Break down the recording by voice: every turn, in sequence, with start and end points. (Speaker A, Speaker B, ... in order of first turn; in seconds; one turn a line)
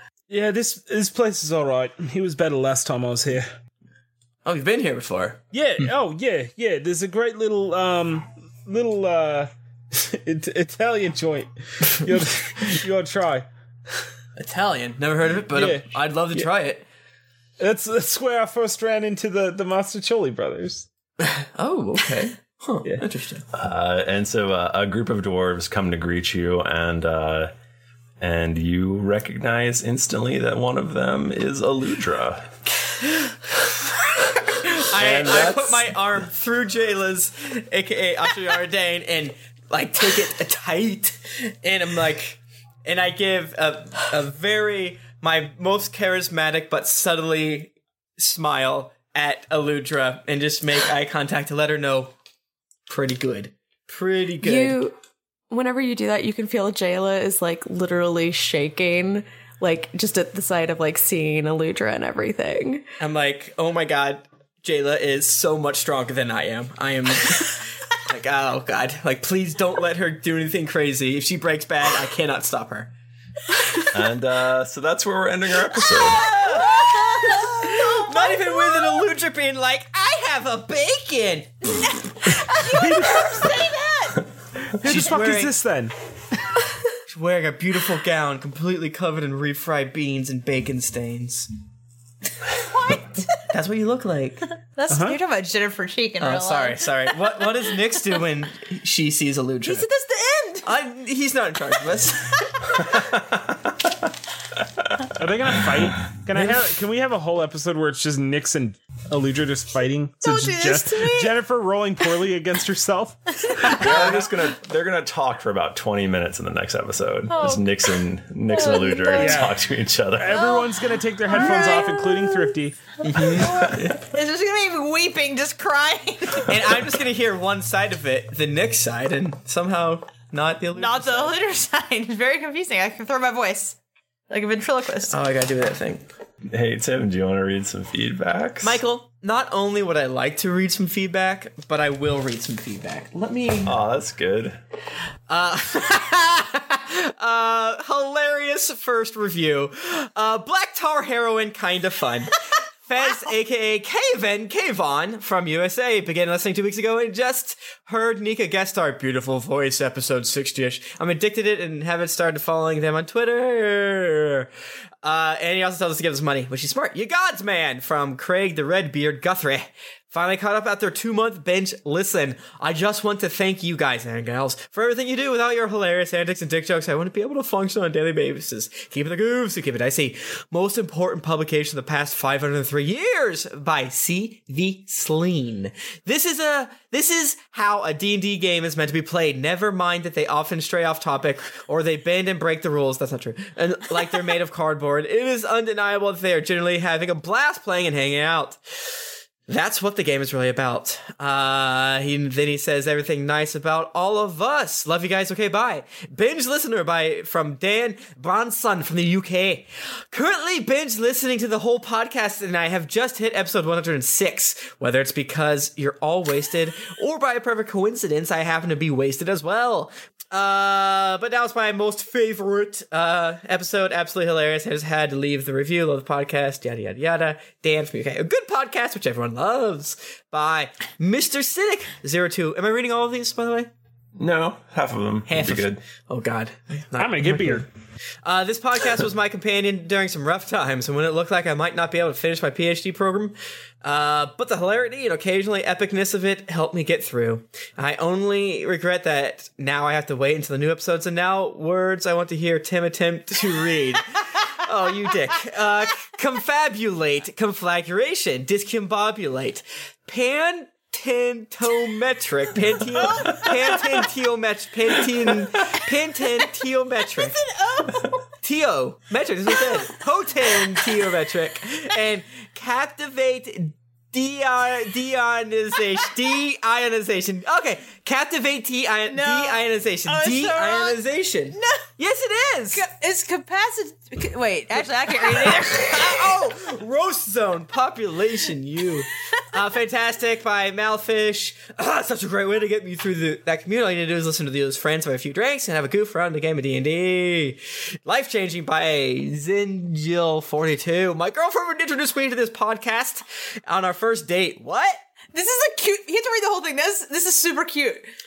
Speaker A: 0.3-3.5
Speaker B: 4.4-5.9
Speaker A: 5.5-13.5
Speaker B: 14.4-16.8
Speaker A: 15.5-16.5
Speaker A: 17.6-20.9
Speaker B: 21.2-23.4
Speaker C: 23.5-27.5
Speaker C: 28.2-32.5
Speaker B: 34.5-52.1
Speaker C: 34.9-36.0
Speaker B: 52.9-54.8
Speaker D: 54.4-54.9
Speaker D: 55.5-62.8
Speaker B: 63.0-72.9
Speaker C: 73.9-76.4
Speaker B: 75.9-81.7
Speaker E: 76.4-79.0
Speaker E: 82.4-84.2
Speaker A: 82.7-83.2
Speaker A: 84.8-85.9
Speaker B: 84.8-85.5
Speaker B: 87.1-91.5
Speaker E: 92.7-93.3
Speaker B: 93.5-94.5
Speaker E: 94.7-98.2
Speaker A: 94.9-95.2
Speaker B: 96.2-99.8
Speaker E: 99.6-100.7
Speaker B: 100.6-103.0
Speaker A: 105.1-113.9
Speaker E: 110.2-111.4
Speaker C: 113.7-120.5
Speaker E: 113.7-114.0
Speaker E: 117.3-117.6
Speaker A: 119.1-119.6
Speaker A: 120.2-122.8
Speaker E: 121.3-121.8
Speaker B: 123.0-124.0
Speaker E: 123.1-126.5
Speaker B: 126.5-131.3
Speaker E: 130.7-133.8
Speaker E: 134.3-135.1
Speaker B: 135.1-136.1
Speaker C: 136.5-138.8
Speaker B: 138.6-143.8
Speaker C: 143.6-144.6
Speaker B: 145.3-164.5
Speaker B: 165.0-198.6
Speaker B: 199.5-233.7
Speaker C: 234.2-235.8
Speaker B: 235.3-237.7
Speaker A: 237.0-237.7
Speaker B: 238.2-267.4
Speaker E: 262.9-264.1
Speaker E: 267.1-268.2
Speaker B: 268.4-282.8
Speaker E: 269.5-270.0
Speaker E: 270.6-270.9
Speaker E: 279.1-281.0
Speaker E: 281.5-281.8
Speaker E: 282.7-286.4
Speaker B: 285.2-305.0
Speaker E: 305.3-308.1